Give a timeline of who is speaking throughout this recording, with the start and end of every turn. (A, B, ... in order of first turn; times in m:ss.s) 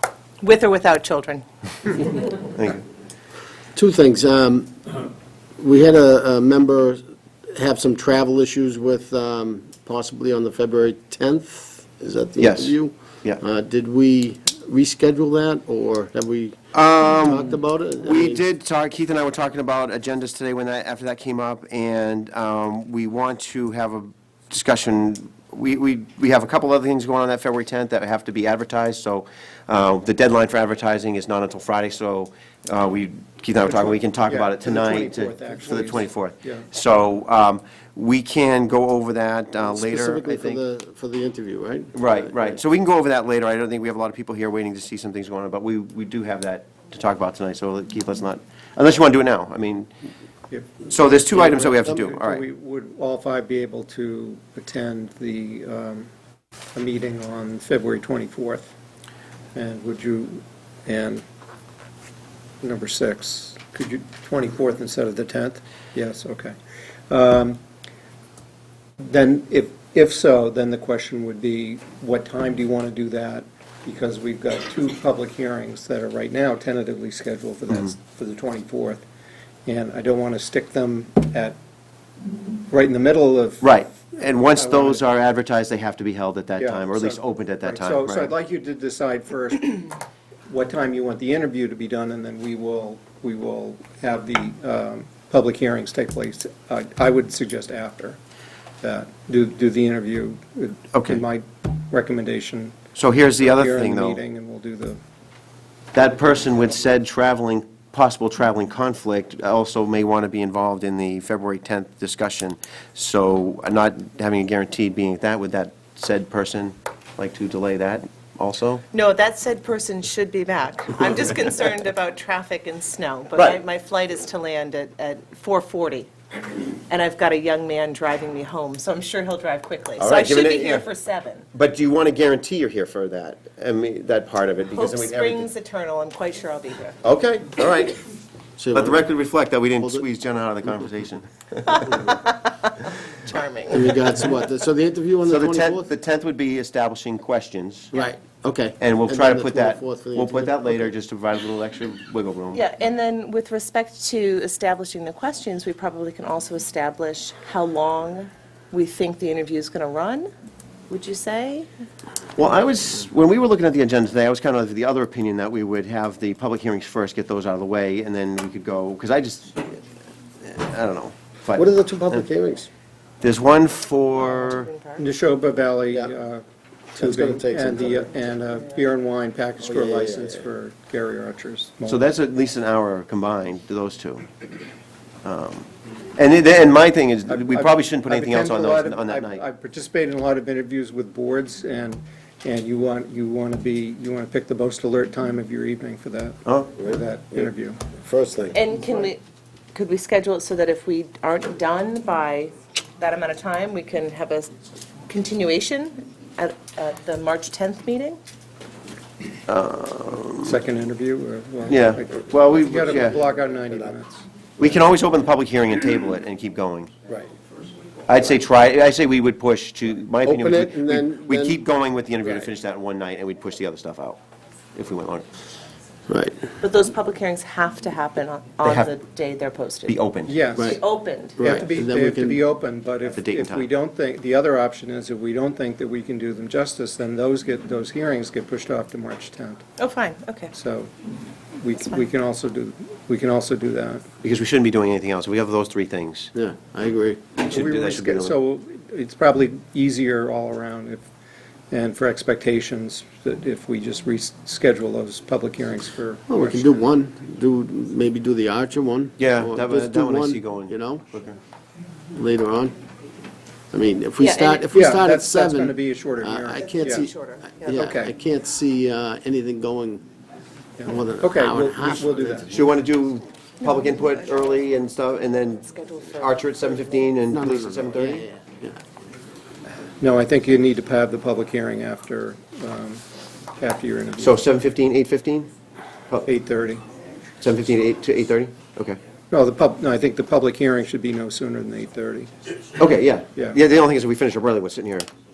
0:00.4-0:02.2 A
0:03.8-0:04.8 B
0:05.6-0:07.0 B
0:07.5-0:18.4 B
0:12.4-0:13.4 C
0:16.7-0:40.6 C
0:33.6-0:36.7 D
0:39.7-0:42.6 B
0:41.9-0:49.9 C
0:50.9-0:52.4 C
0:51.2-0:51.9 B
0:51.8-0:56.1 D
0:56.8-0:58.7 D
0:59.6-1:01.2 D
1:02.6-1:06.6 D
1:07.1-1:07.6 D
1:09.0-1:19.0 D
1:19.7-1:21.6 D
1:22.7-1:23.9 D
1:23.6-1:28.3 C
1:24.5-1:25.0 D
1:26.6-1:30.0 D
1:30.5-1:38.2 D
1:38.8-1:42.8 D
1:40.9-1:41.2 C
1:43.0-1:44.2 C
1:43.4-1:45.0 D
1:45.9-1:58.8 C
1:46.0-1:46.3 D
1:58.9-2:06.1 A
2:06.9-2:11.5 A
2:10.0-2:10.9 C
2:11.5-2:15.5 C
2:14.8-2:17.0 A
2:17.0-2:18.0 C
2:18.6-2:19.1 B
2:18.7-2:22.1 C
2:19.8-2:20.0 B
2:21.8-2:22.5 A
2:23.2-2:23.9 A
2:23.7-2:25.9 B
2:25.2-2:27.9 C
2:27.9-2:30.9 B
2:28.8-2:32.6 C
2:32.5-2:40.3 A
2:40.9-2:41.7 A
2:42.4-2:49.8 C
2:50.4-2:52.3 C
2:51.5-2:52.7 B
2:53.2-2:54.7 C
2:54.2-2:55.0 A
2:55.0-2:56.4 D
2:57.0-3:02.0 D
2:57.0-2:58.1 B
2:59.6-3:00.4 B
3:01.9-3:04.3 C
3:05.2-3:09.4 C
3:07.3-3:17.8 D
3:16.5-3:16.7 C
3:16.8-3:18.6 B
3:18.5-3:19.2 A
3:19.7-3:24.5 A
3:25.1-3:28.2 A
3:29.5-3:30.6 C
3:30.4-3:34.6 D
3:31.7-3:33.2 C
3:34.6-3:36.9 C
3:38.1-3:44.2 C
3:40.2-3:41.6 B
3:44.8-3:45.2 C
3:46.1-3:46.4 B
3:46.6-3:51.5 A
3:48.6-3:48.9 C
3:49.9-3:50.4 C
3:50.3-3:50.8 D
3:51.4-3:52.4 B
3:51.4-3:59.6 D
3:53.1-3:53.7 C
3:59.8-4:00.5 A
4:00.5-4:00.9 D
4:01.6-4:04.1 D
4:04.2-4:06.3 C
4:06.4-4:07.3 B
4:07.4-4:08.4 C
4:07.5-4:11.1 D
4:11.7-4:16.9 D
4:16.3-4:21.0 B
4:19.2-4:21.4 C
4:22.1-4:22.8 B
4:23.7-4:30.0 B
4:24.2-4:24.6 A
4:24.7-4:27.1 D
4:26.7-4:27.8 A
4:27.7-4:28.1 D
4:30.8-4:32.5 D
4:30.8-4:32.5 B
4:32.5-4:38.3 C
4:33.6-4:34.5 A
4:35.6-4:36.9 A
4:37.3-4:38.8 B
4:40.0-4:43.0 D
4:43.6-4:44.4 D
4:44.2-4:45.5 C
4:46.2-4:46.8 D
4:47.4-4:49.0 C
4:49.3-4:52.3 D
4:52.8-4:55.1 C